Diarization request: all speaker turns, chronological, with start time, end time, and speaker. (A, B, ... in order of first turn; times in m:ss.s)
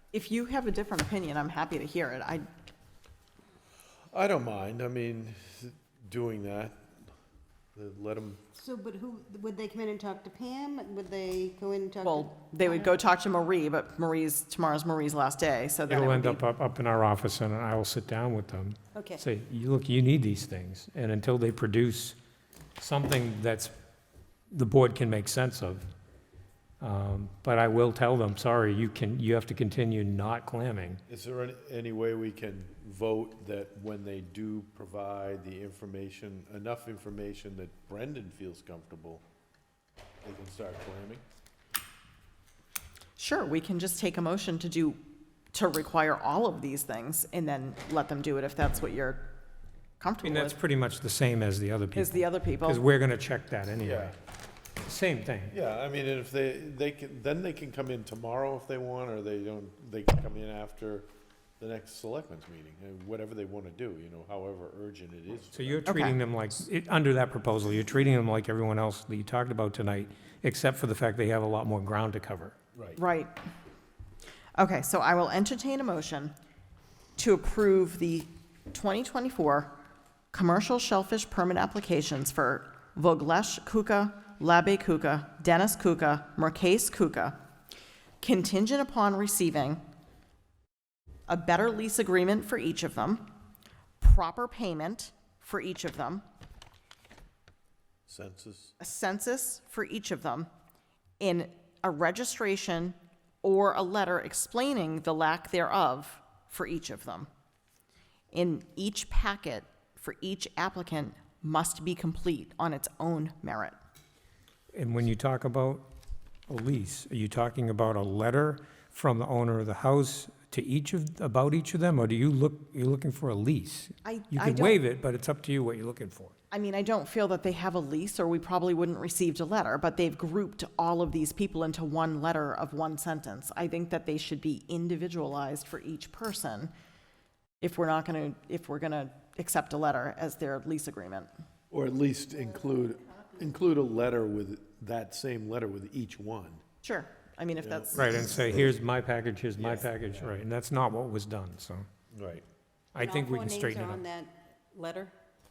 0:00.1-0:02.4 A
0:04.1-0:06.9 B
0:07.8-0:08.4 B
0:08.6-0:12.9 C
0:12.0-0:16.4 A
0:15.9-0:22.2 D
0:18.9-0:19.2 C
0:22.8-0:23.7 D
0:24.5-0:25.9 D
0:26.8-0:31.0 D
0:31.1-0:39.2 B
0:40.2-0:41.2 B
0:43.2-0:45.0 A
0:45.5-0:49.3 A
0:50.0-0:50.6 A
0:50.2-0:54.1 D
0:51.9-0:52.8 A
0:53.8-0:54.1 B
0:54.8-0:55.5 D
0:55.5-1:01.1 B
1:01.6-1:05.8 B
1:05.5-1:12.6 D
1:05.8-1:06.2 A
1:13.0-1:13.3 A
1:14.6-1:16.3 A
1:17.2-1:19.7 A
1:20.3-1:27.4 A
1:28.2-1:29.8 A
1:31.3-1:33.3 A
1:34.0-1:36.2 A
1:38.1-1:38.7 B
1:38.8-1:40.5 A
1:41.2-1:47.3 A
1:48.3-1:53.8 A
1:54.7-1:55.8 D
1:56.5-2:06.3 D
2:04.0-2:04.8 A
2:06.5-2:16.7 A
2:17.6-2:21.3 A
2:21.7-2:26.6 B
2:26.8-2:28.2 A
2:27.6-2:27.9 B
2:27.9-2:31.9 D
2:29.6-2:30.3 B
2:32.1-2:32.4 B
2:32.9-2:34.0 D
2:33.0-2:35.1 C